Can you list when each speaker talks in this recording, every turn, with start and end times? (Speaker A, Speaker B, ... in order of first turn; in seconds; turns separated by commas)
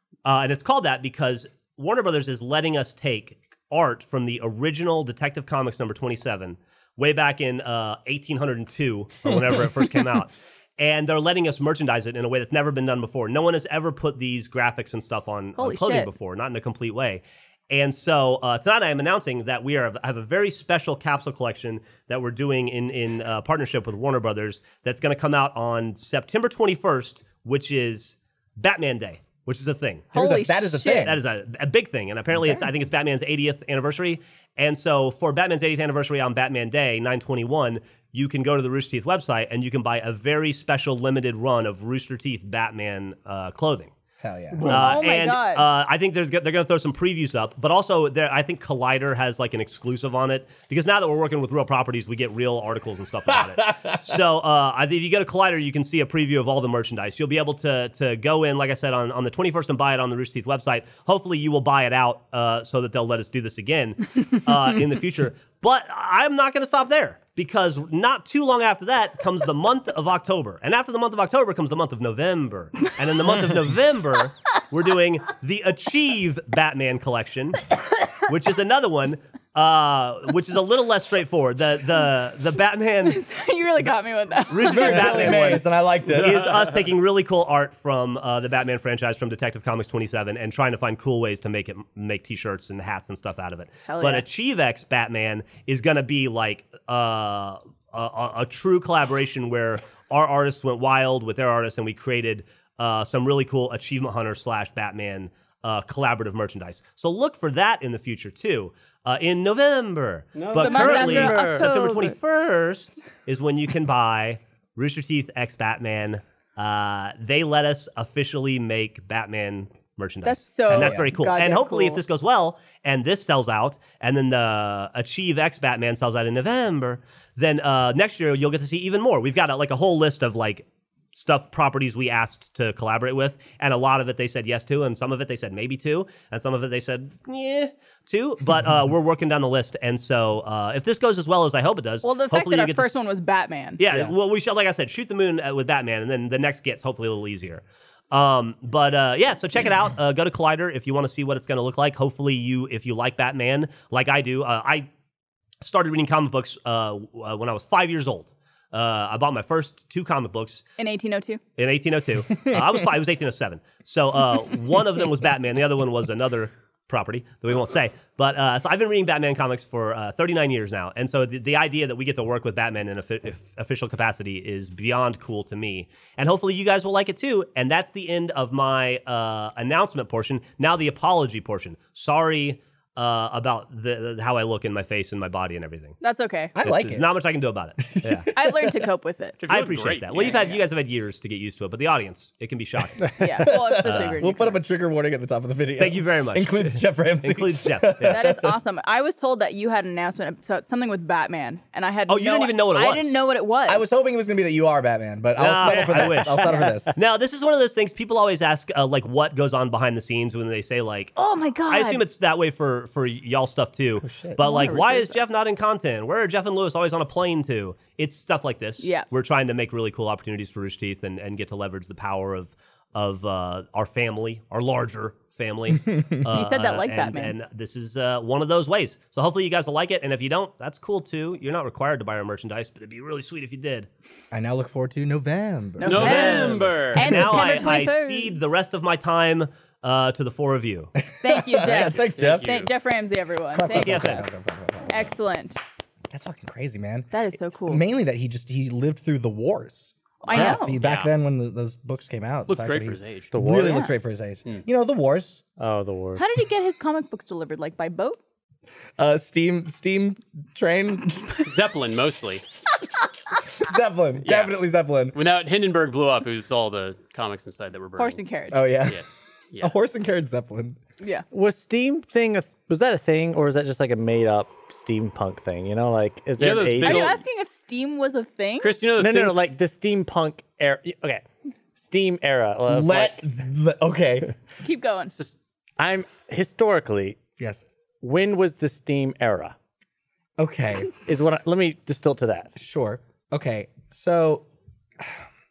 Speaker A: 0.2-30.1, Speaker B: 15.6-16.1, Speaker B: 30.1-31.2, Speaker C: 30.1-31.3, Speaker A: 31.0-43.9, Speaker C: 32.4-32.7, Speaker C: 44.2-44.7, Speaker B: 44.6-45.6, Speaker A: 44.6-83.2, Speaker B: 83.0-85.6, Speaker A: 84.5-143.1, Speaker C: 84.6-86.8, Speaker B: 93.9-94.2, Speaker D: 110.4-111.4, Speaker B: 110.6-112.2, Speaker E: 110.8-111.7, Speaker B: 120.2-122.0, Speaker C: 120.7-121.1, Speaker B: 142.0-143.8, Speaker A: 143.8-154.9, Speaker A: 155.6-160.7, Speaker B: 160.8-161.4, Speaker A: 161.6-186.0, Speaker B: 186.0-186.5, Speaker C: 186.6-187.1, Speaker A: 186.6-188.3, Speaker C: 187.8-188.8, Speaker B: 188.3-189.4, Speaker D: 189.4-190.5, Speaker A: 189.5-193.2, Speaker B: 193.2-194.6, Speaker C: 193.4-198.5, Speaker A: 193.8-194.2, Speaker A: 195.8-198.2, Speaker B: 198.1-203.9, Speaker A: 202.1-203.2, Speaker C: 203.7-206.9, Speaker A: 205.4-211.2, Speaker E: 205.6-207.0, Speaker B: 211.2-212.0, Speaker A: 211.7-233.9, Speaker C: 214.0-214.4, Speaker B: 214.4-215.2, Speaker B: 218.8-219.1, Speaker B: 226.3-227.3, Speaker C: 234.3-236.8, Speaker B: 235.8-238.4, Speaker D: 235.8-237.2, Speaker A: 236.1-240.9, Speaker C: 241.1-242.5, Speaker B: 241.2-244.2, Speaker D: 241.8-242.7, Speaker C: 243.5-245.1, Speaker A: 243.7-244.2, Speaker B: 244.9-245.6, Speaker C: 246.1-255.4, Speaker B: 247.1-247.8, Speaker B: 250.2-250.8, Speaker D: 250.3-251.1, Speaker D: 252.5-253.3, Speaker E: 253.3-253.9, Speaker E: 255.6-256.3, Speaker B: 256.2-258.2, Speaker C: 259.0-261.4, Speaker D: 261.4-262.4, Speaker C: 263.6-265.2, Speaker D: 264.2-264.6, Speaker D: 265.1-268.2, Speaker B: 268.0-268.7, Speaker C: 268.5-269.0, Speaker D: 268.9-269.7, Speaker C: 269.6-270.8, Speaker B: 271.0-271.2, Speaker E: 271.3-277.2, Speaker D: 276.4-277.2, Speaker B: 276.8-278.7, Speaker D: 278.6-279.4, Speaker E: 279.0-281.2, Speaker E: 281.8-283.2, Speaker C: 282.7-284.3, Speaker B: 284.6-285.1, Speaker E: 285.8-287.2, Speaker E: 288.0-289.6, Speaker C: 290.4-290.9, Speaker E: 290.9-292.5, Speaker C: 292.6-294.4